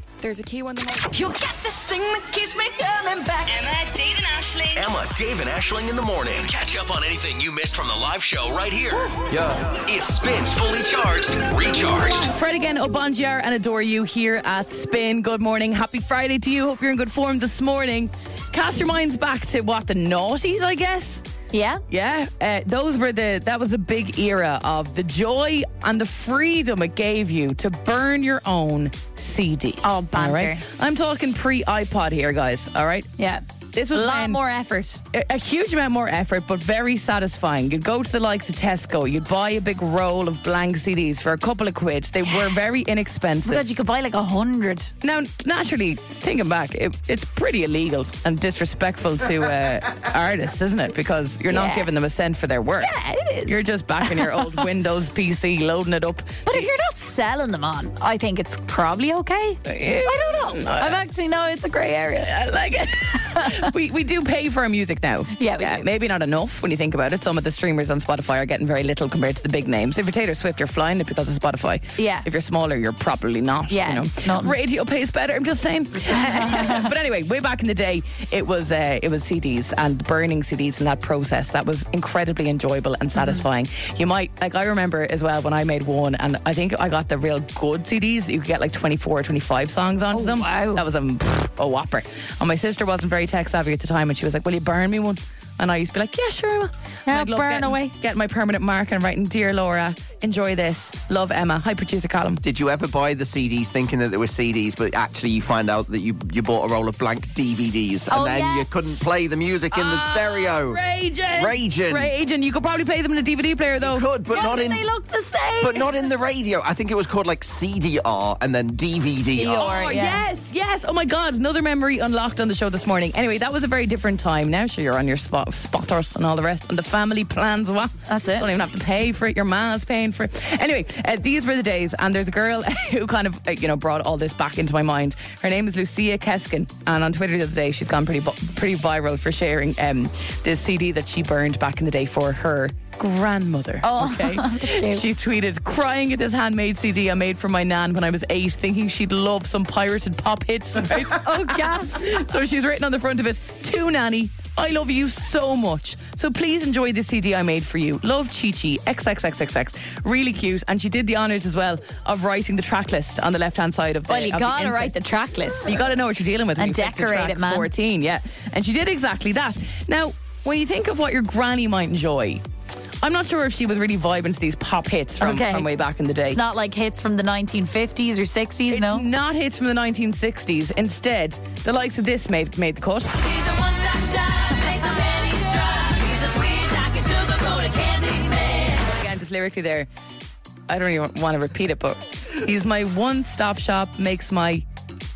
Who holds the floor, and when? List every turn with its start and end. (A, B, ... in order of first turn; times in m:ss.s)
0:00.2-0:04.9 A
0:04.7-0:12.3 B
0:12.1-0:21.2 C
0:21.5-0:21.8 D
0:21.9-0:33.1 C
0:29.8-0:30.6 D
0:33.2-0:35.0 D
0:33.7-0:34.4 C
0:35.1-0:43.6 C
0:43.4-0:44.9 D
0:45.0-0:52.9 C
0:51.5-0:51.9 D
0:52.8-0:54.6 D
0:53.5-0:56.7 C
0:56.5-1:02.4 D
0:59.7-1:01.0 C
1:02.2-1:42.4 C
1:03.4-1:03.7 D
1:05.4-1:05.8 D
1:12.0-1:12.3 D
1:13.7-1:14.6 D
1:16.1-1:16.9 D
1:23.2-1:23.4 D
1:30.1-1:30.8 D
1:37.1-1:37.9 D
1:42.4-1:50.8 E
1:48.1-1:48.7 D
1:49.7-1:54.1 C
1:51.3-1:52.1 E
1:53.8-1:54.8 E
1:54.3-1:55.9 D
1:55.6-1:59.8 E
1:59.3-2:00.2 D
1:59.6-2:44.9 C
2:08.1-2:08.5 D
2:23.8-2:25.1 D
2:31.2-2:32.0 D
2:44.1-2:45.8 D
2:45.7-2:52.4 C
2:46.6-2:47.7 D
2:53.0-2:56.4 C
2:55.2-2:55.7 D
2:56.3-2:59.0 D
2:58.7-3:03.2 C
3:03.3-3:08.8 D
3:08.8-3:09.9 C
3:10.7-3:14.6 C